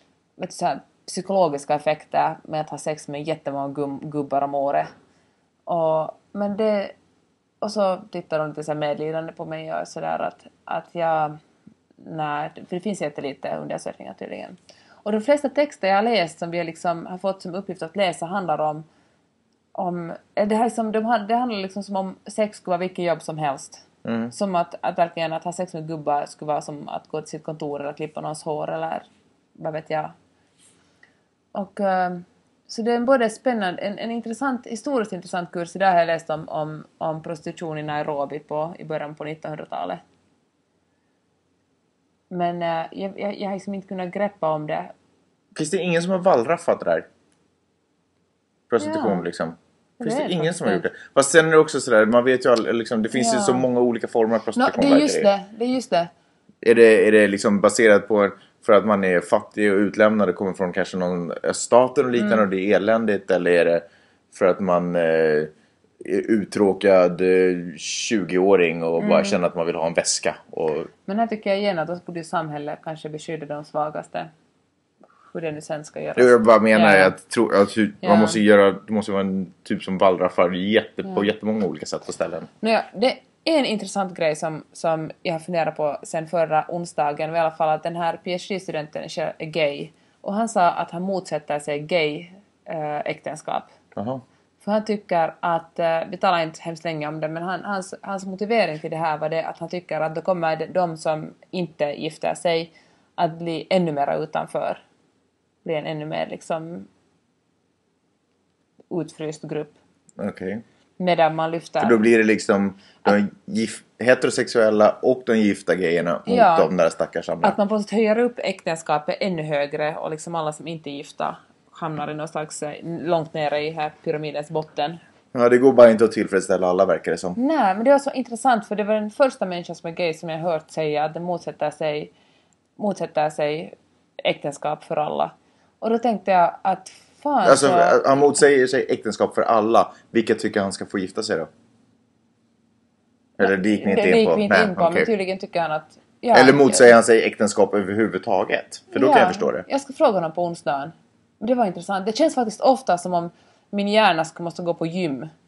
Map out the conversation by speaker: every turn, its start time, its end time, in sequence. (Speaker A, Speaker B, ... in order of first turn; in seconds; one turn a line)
Speaker A: 0.4-4.9
Speaker A: 5.7-7.0
Speaker A: 7.6-11.4
Speaker A: 12.0-18.9
Speaker A: 19.8-30.1
Speaker B: 24.1-24.3
Speaker A: 31.5-40.0
Speaker A: 42.3-44.9
Speaker B: 45.5-47.1
Speaker B: 48.7-55.3
Speaker A: 48.8-49.2
Speaker A: 50.0-50.9
Speaker A: 53.1-53.7
Speaker A: 54.6-56.1
Speaker B: 56.6-65.5
Speaker A: 62.2-62.5
Speaker B: 66.0-70.9
Speaker A: 69.0-69.4
Speaker A: 71.1-74.3
Speaker A: 75.3-77.2
Speaker B: 76.2-82.5
Speaker A: 78.0-78.4
Speaker A: 82.6-93.7
Speaker B: 94.0-94.2
Speaker A: 94.6-104.8
Speaker A: 105.6-106.9
Speaker A: 108.9-109.8
Speaker B: 110.2-110.6
Speaker A: 111.0-112.0
Speaker B: 111.8-117.6
Speaker A: 116.3-116.7
Speaker A: 117.4-125.0
Speaker B: 125.3-127.4
Speaker A: 127.4-132.1
Speaker A: 132.8-138.2
Speaker B: 137.4-141.5
Speaker B: 143.4-145.1
Speaker A: 143.4-146.9
Speaker B: 146.3-149.7
Speaker A: 148.9-155.3